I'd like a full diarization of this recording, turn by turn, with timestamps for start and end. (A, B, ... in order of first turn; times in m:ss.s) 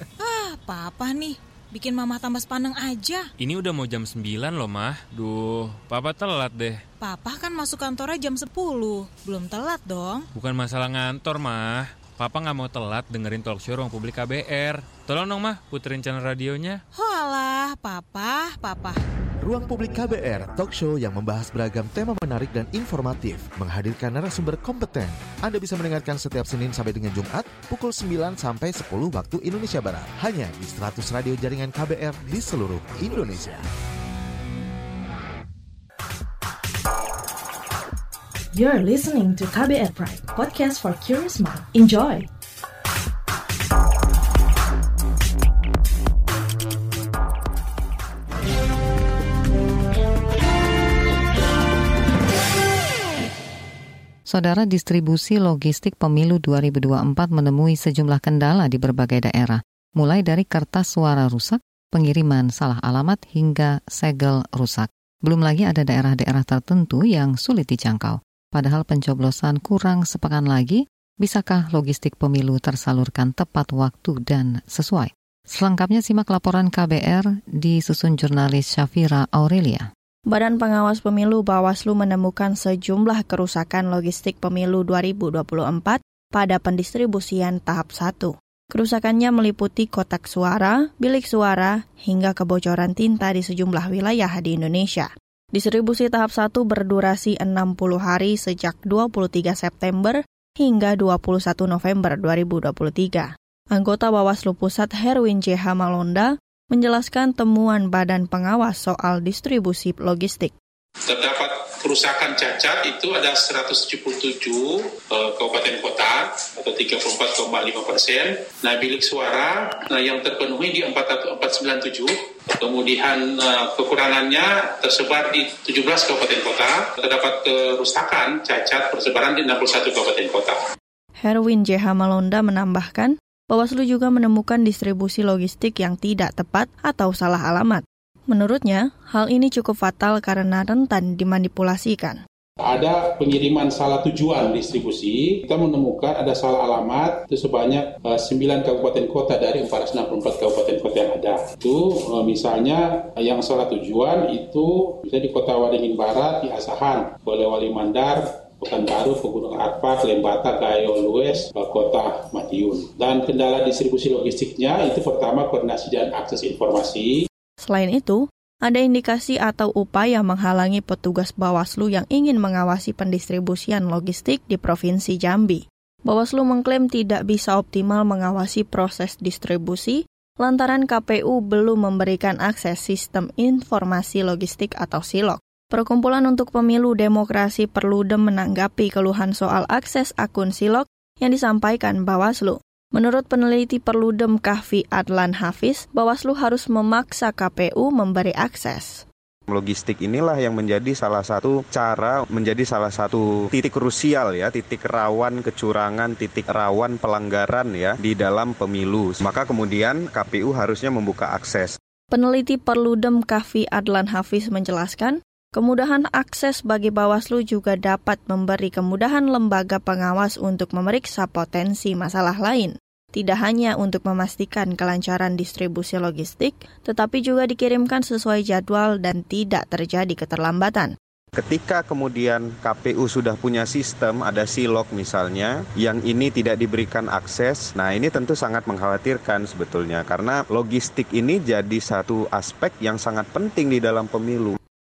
0:00.2-0:03.2 A
0:03.4-0:06.8 B
0:07.0-0:10.2 A
0:10.3-0:16.8 B
0:17.0-0:18.9 A
0:19.4-0:33.6 C
0:38.5-0:42.3 D
0:54.3-1:19.9 E
1:20.3-1:50.5 F
1:51.2-1:54.6 G
1:55.2-1:56.2 G
1:56.7-1:59.4 G
2:00.0-2:02.0 G
2:04.0-2:10.5 G
2:11.2-2:22.2 F
2:22.8-2:31.5 G
2:32.3-2:32.7 G
2:33.4-2:38.1 G
2:38.7-2:41.0 G
2:41.5-2:47.0 G
2:47.6-3:19.0 F
3:19.5-3:31.8 H
3:32.1-3:50.9 F
3:51.4-4:04.6 H